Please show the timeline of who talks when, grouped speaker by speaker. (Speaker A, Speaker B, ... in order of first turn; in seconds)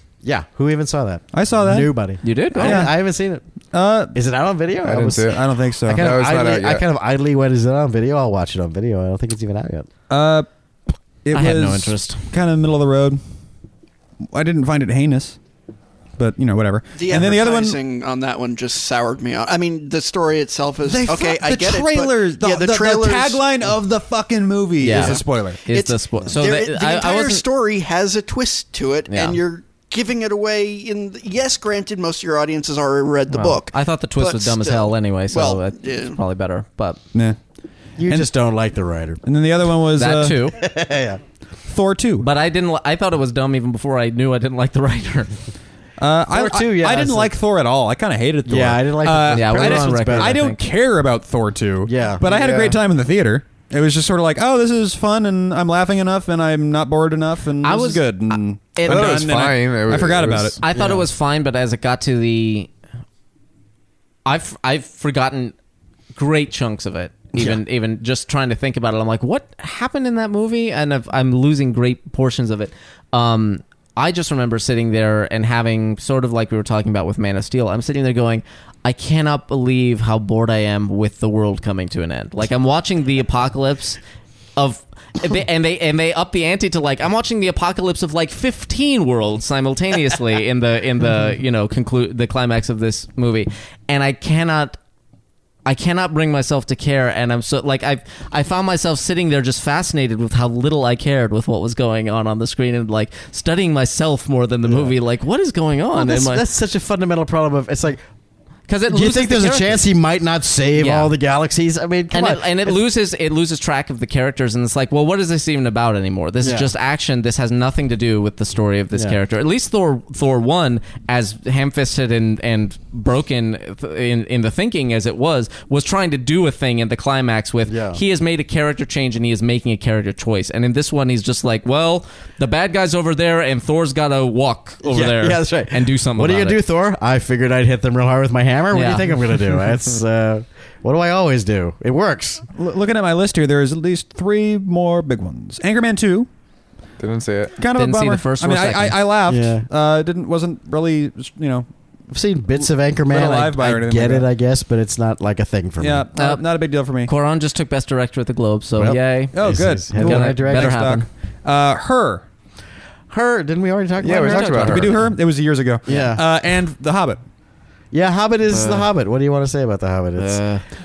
Speaker A: 0.2-3.4, 4.1-9.9, 38.0-39.2, 40.5-41.2, 46.3-47.3, 48.5-50.4, 51.9-52.5, 60.7-61.1, 104.7-104.9, 105.9-108.0, 108.9-112.8, 116.4-116.7, 127.7-128.0, 134.8-142.4, 149.3-149.7, 152.1-156.1, 158.8-160.9, 163.1-165.1, 165.9-166.2, 167.9-170.4
Speaker B: 1.3-3.0, 3.7-4.2, 5.2-6.2, 10.1-10.5, 11.2-13.2, 14.3-15.4, 16.2-17.8, 20.9-25.6, 39.2-40.4, 41.7-42.3, 46.0-60.6, 142.6-146.3, 147.6-151.7, 152.6-154.3, 155.8-157.1, 159.3-162.2, 164.5-167.2
Speaker C: 2.2-2.9, 11.3-12.2, 24.8-27.4, 29.1-29.4, 33.3-37.0, 40.0-40.6, 42.2-45.3, 49.3-50.6, 57.6-59.3, 60.6-62.7, 64.3-65.6, 66.1-84.0, 84.6-94.8, 95.7-106.5, 108.7-109.8, 110.8-111.1, 112.1-136.6, 138.7-139.1, 147.8-149.0, 156.2-156.4, 157.0-159.4, 159.9-161.1, 164.2-164.6, 168.5-168.9, 170.2-170.6
Speaker D: 4.8-6.8, 52.3-52.7, 58.9-60.6, 147.0-147.6, 164.0-165.0
Speaker E: 16.9-23.4, 24.9-36.2